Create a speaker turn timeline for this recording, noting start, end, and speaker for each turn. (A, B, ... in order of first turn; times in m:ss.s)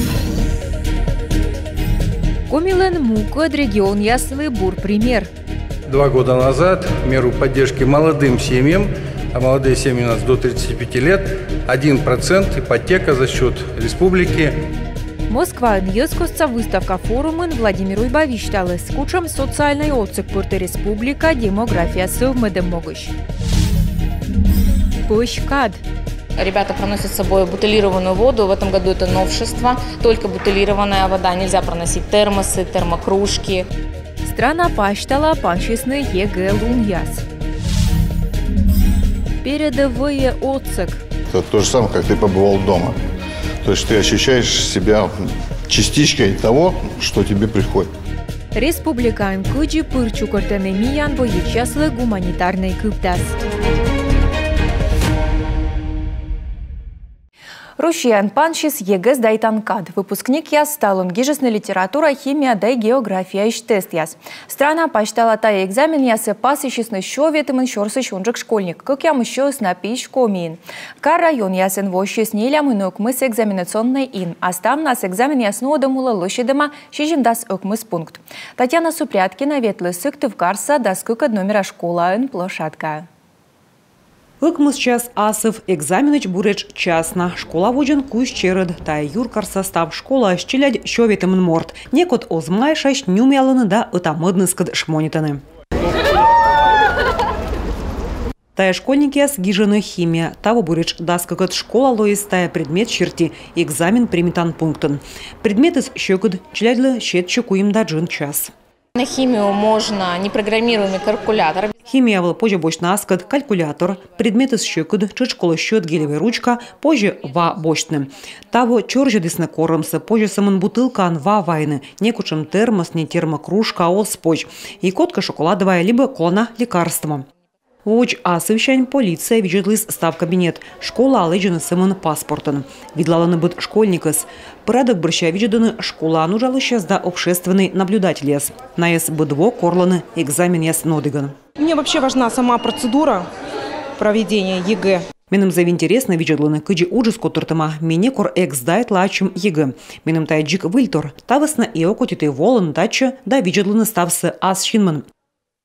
0:02.5-0:05.3 A
0:05.9-0:14.6 B
0:15.3-0:23.1 A
0:25.1-0:25.8 A
0:26.4-0:33.6 C
0:34.2-0:37.2 A
0:39.4-0:41.0 A
0:41.3-0:43.0 D
0:43.6-0:47.9 D
0:48.6-0:53.3 A
0:57.8-1:23.1 A
1:24.4-1:35.4 E
1:38.6-1:48.5 E
1:49.0-1:51.7 C
1:51.9-2:07.3 E
2:07.8-2:21.4 E
2:21.6-2:23.3 F
2:24.0-2:25.0 F
2:25.3-2:35.1 E